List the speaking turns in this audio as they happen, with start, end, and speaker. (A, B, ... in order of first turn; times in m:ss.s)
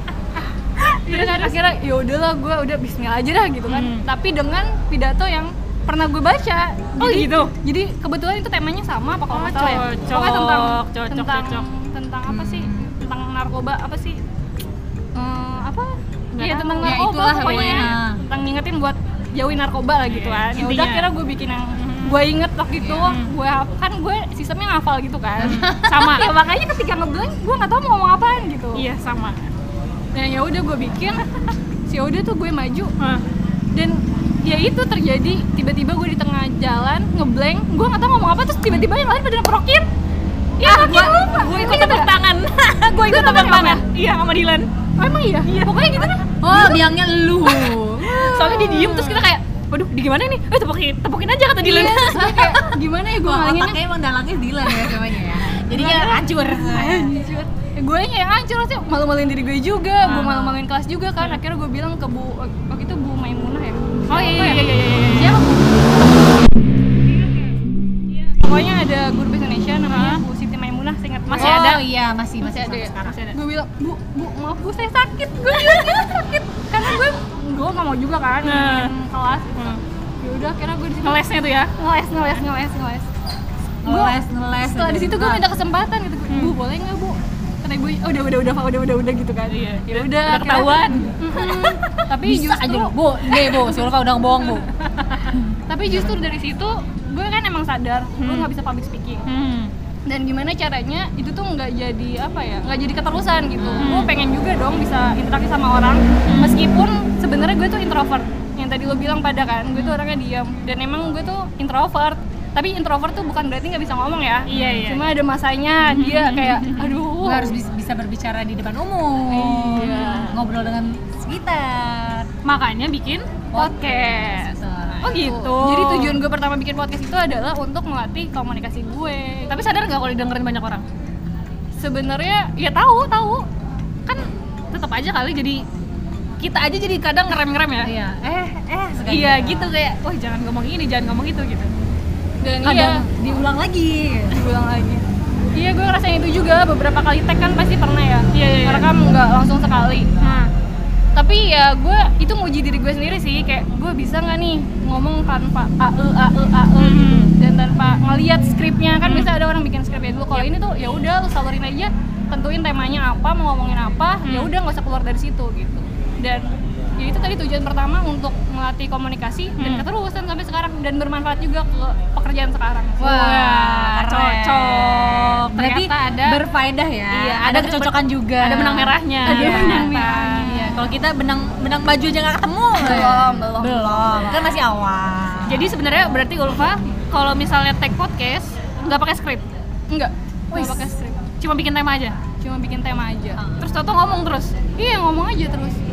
0:00.9-0:01.6 A
0:01.0-0:14.2 B
0:03.7-0:04.0 A
0:07.0-0:07.5 A
0:09.3-0:11.6 A
0:12.3-0:12.9 C
0:15.1-0:28.8 B
0:16.3-0:18.0 A
0:16.8-0:18.2 C
0:20.1-0:21.1 A
0:21.8-0:22.2 A
0:22.8-0:23.1 C
0:25.4-0:26.2 C
0:25.4-0:26.3 A
0:28.7-0:29.5 A
0:30.1-0:31.2 B
0:31.9-0:32.9 B
0:33.7-0:39.9 B
0:40.6-0:42.1 B
0:40.6-0:44.7 A
0:42.9-0:43.8 B
0:45.0-0:46.8 B
0:45.4-0:46.2 A
0:46.4-0:48.4 C
0:48.0-0:49.3 B
0:48.2-0:52.2 A
0:51.6-0:53.8 B
0:52.1-0:52.6 C
0:53.2-0:57.1 C
0:55.7-1:05.9 B
1:00.0-1:00.6 A
1:04.1-1:05.4 A
1:07.1-1:11.8 B
1:09.9-1:10.2 A
1:11.3-1:11.8 A
1:11.4-1:13.2 C
1:12.4-1:21.2 B
1:13.0-1:13.4 A
1:18.4-1:18.9 A
1:21.0-1:21.7 A
1:21.7-1:23.1 B
1:23.8-1:25.4 C
1:23.8-1:33.8 B
1:26.3-1:26.5 A
1:29.5-1:31.2 A
1:32.1-1:34.7 C
1:34.5-1:35.3 A
1:35.3-1:36.2 C
1:35.7-1:39.2 B
1:38.2-1:38.5 A
1:39.3-1:39.7 A
1:40.1-1:57.6 B
1:43.6-1:44.0 C
1:43.8-1:44.1 A
1:46.2-1:46.6 A
1:54.5-1:55.1 A
1:54.5-1:54.8 C
1:55.8-1:57.0 A
1:57.2-2:02.3 C
1:59.3-2:00.4 B
2:02.4-2:03.4 A
2:03.5-2:05.0 C
2:03.5-2:09.6 B
2:05.0-2:06.2 A
2:09.5-2:10.8 A
2:11.8-2:13.5 B
2:14.1-2:15.6 A
2:16.4-2:17.9 A
2:17.8-2:19.7 C
2:19.1-2:21.7 A
2:22.4-2:23.0 B
2:22.6-2:24.4 C
2:24.3-2:30.1 B
2:28.3-2:28.9 A
2:30.2-2:30.5 A
2:31.2-2:53.1 B
2:36.8-2:37.3 A
2:39.0-2:39.3 A
2:44.2-2:44.5 A
2:49.6-2:49.8 A
2:53.0-3:05.8 C
2:53.0-2:56.4 A
2:57.1-3:00.6 A
2:59.2-3:00.8 B
3:02.8-3:04.5 B
3:05.5-3:09.4 A
3:09.9-3:11.2 B
3:11.4-3:12.2 A
3:12.4-3:13.4 B
3:13.6-3:14.5 A
3:14.8-3:15.8 B